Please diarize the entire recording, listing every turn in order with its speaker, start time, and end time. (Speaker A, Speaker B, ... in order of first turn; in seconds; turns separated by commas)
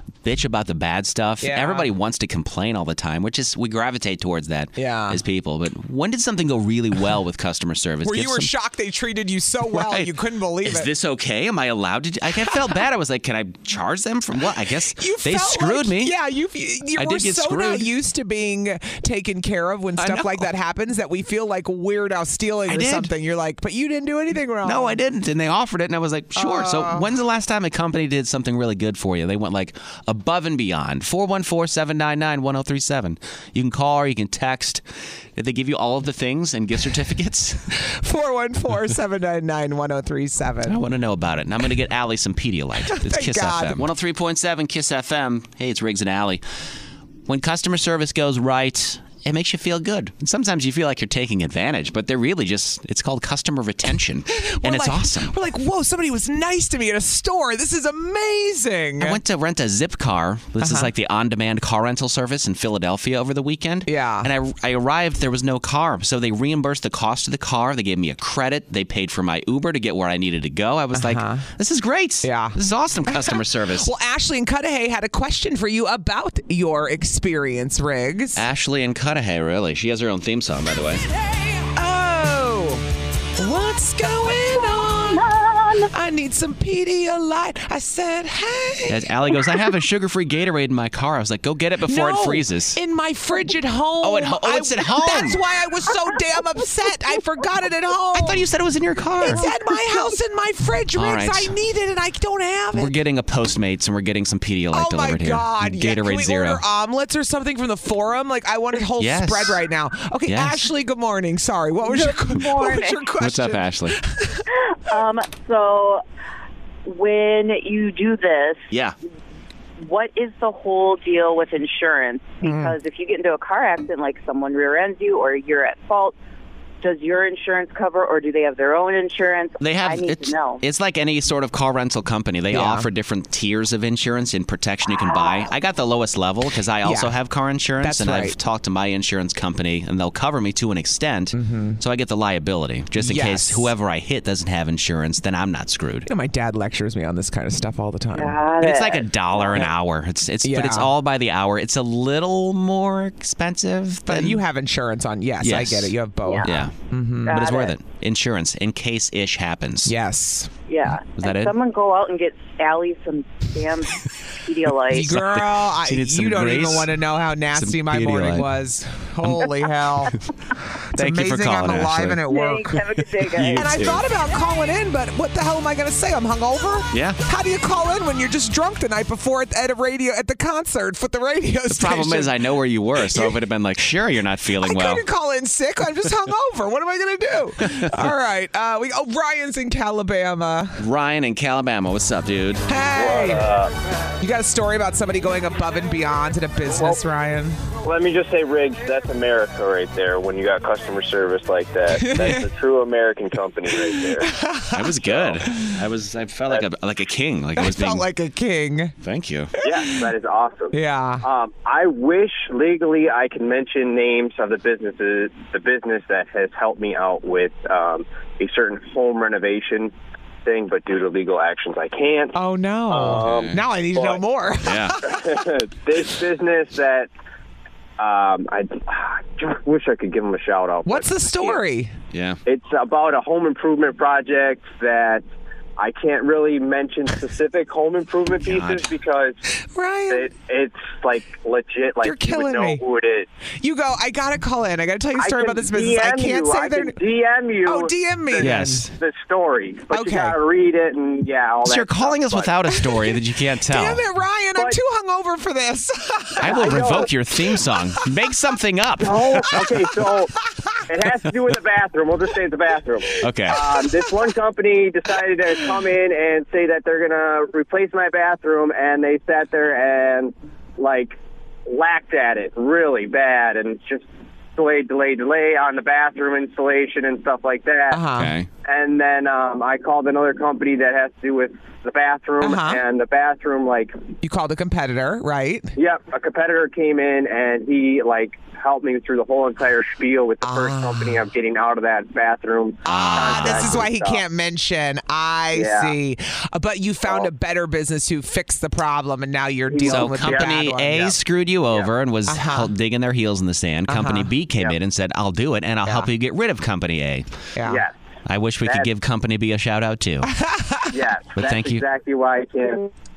Speaker A: 0.2-8.5, Speaker B: 1.4-1.9, Speaker B: 4.8-5.2, Speaker B: 8.0-10.9, Speaker A: 9.7-10.1, Speaker A: 10.6-16.1, Speaker B: 12.4-12.8, Speaker B: 14.9-25.0, Speaker A: 17.0-17.9, Speaker A: 20.0-20.5, Speaker A: 22.7-23.1, Speaker A: 24.6-34.8, Speaker B: 26.4-27.1, Speaker A: 35.4-37.7, Speaker B: 37.8-40.8, Speaker A: 40.7-46.4, Speaker B: 42.9-43.9, Speaker A: 47.3-55.4, Speaker B: 54.3-59.2, Speaker A: 59.0-73.9, Speaker B: 60.6-60.9, Speaker B: 63.9-64.3, Speaker B: 70.9-71.5, Speaker B: 72.2-78.4, Speaker A: 78.4-81.0, Speaker B: 81.7-82.8, Speaker B: 83.4-85.3, Speaker B: 85.9-89.1, Speaker A: 88.9-92.8, Speaker B: 91.9-98.5, Speaker A: 94.0-95.4, Speaker A: 98.1-99.5, Speaker B: 99.2-102.9, Speaker A: 101.0-101.5, Speaker A: 102.8-106.6, Speaker B: 104.7-114.5, Speaker A: 109.0-109.6, Speaker A: 110.3-110.7, Speaker C: 111.8-113.1, Speaker A: 113.2-114.0, Speaker C: 114.5-116.0, Speaker C: 116.9-118.7, Speaker C: 119.8-126.2, Speaker B: 122.4-122.8, Speaker C: 126.8-130.6, Speaker A: 129.6-146.1, Speaker B: 132.5-132.9, Speaker B: 136.8-137.2, Speaker B: 137.8-138.4, Speaker B: 141.3-141.8, Speaker B: 143.0-143.7, Speaker B: 146.1-148.4, Speaker C: 148.1-149.7, Speaker A: 148.6-154.4, Speaker B: 150.4-150.9, Speaker B: 154.1-157.4, Speaker A: 155.4-156.7, Speaker C: 156.2-156.5, Speaker C: 157.2-157.8, Speaker A: 157.3-159.9, Speaker B: 159.9-160.5, Speaker C: 160.7-165.1, Speaker A: 161.1-161.5, Speaker B: 164.9-170.2, Speaker A: 164.9-166.9, Speaker A: 167.5-168.5, Speaker A: 169.2-169.5, Speaker B: 170.9-182.4, Speaker A: 170.9-172.2, Speaker C: 172.3-174.0, Speaker A: 173.2-174.0, Speaker A: 176.9-177.2, Speaker A: 181.7-185.0, Speaker B: 183.0-183.4, Speaker B: 184.6-190.8, Speaker A: 187.6-187.9, Speaker A: 190.8-192.6, Speaker B: 192.7-193.4, Speaker D: 192.9-193.7, Speaker B: 194.2-197.6, Speaker D: 196.7-197.0, Speaker D: 197.8-204.3, Speaker B: 201.9-202.5, Speaker B: 203.8-205.7, Speaker A: 204.7-208.1, Speaker B: 207.6-208.9, Speaker A: 209.0-209.5, Speaker B: 209.6-210.1, Speaker D: 209.6-219.9, Speaker B: 210.7-211.2, Speaker D: 220.4-222.4, Speaker B: 222.3-225.4, Speaker D: 222.9-224.2, Speaker A: 223.2-223.6, Speaker A: 224.6-225.0, Speaker D: 225.0-227.1, Speaker D: 228.0-231.6, Speaker B: 230.9-231.9, Speaker A: 232.1-232.4, Speaker D: 232.5-235.2, Speaker D: 235.8-239.4, Speaker A: 238.4-238.9, Speaker B: 239.7-240.3, Speaker D: 240.1-243.3, Speaker B: 242.0-242.8, Speaker B: 243.6-246.9, Speaker D: 245.2-252.8, Speaker B: 247.7-248.9, Speaker A: 248.4-248.9, Speaker B: 249.9-250.4, Speaker A: 251.7-254.0, Speaker B: 252.9-257.0, Speaker A: 256.4-259.7, Speaker D: 256.4-257.1, Speaker D: 259.0-271.2, Speaker A: 263.2-263.6, Speaker B: 263.6-264.1, Speaker D: 271.7-278.0, Speaker B: 277.9-278.3, Speaker A: 278.1-278.5, Speaker D: 278.6-284.0, Speaker B: 282.4-282.8, Speaker B: 284.2-285.7, Speaker D: 285.8-294.2, Speaker B: 290.4-291.2, Speaker A: 292.9-293.9, Speaker B: 292.9-301.2, Speaker D: 295.5-295.9, Speaker D: 299.7-300.6, Speaker A: 299.8-307.3, Speaker B: 302.3-302.7, Speaker B: 303.9-304.3, Speaker B: 307.6-307.8, Speaker D: 307.7-307.9, Speaker A: 308.3-310.3, Speaker B: 310.3-310.9, Speaker D: 310.9-312.9, Speaker A: 311.4-311.8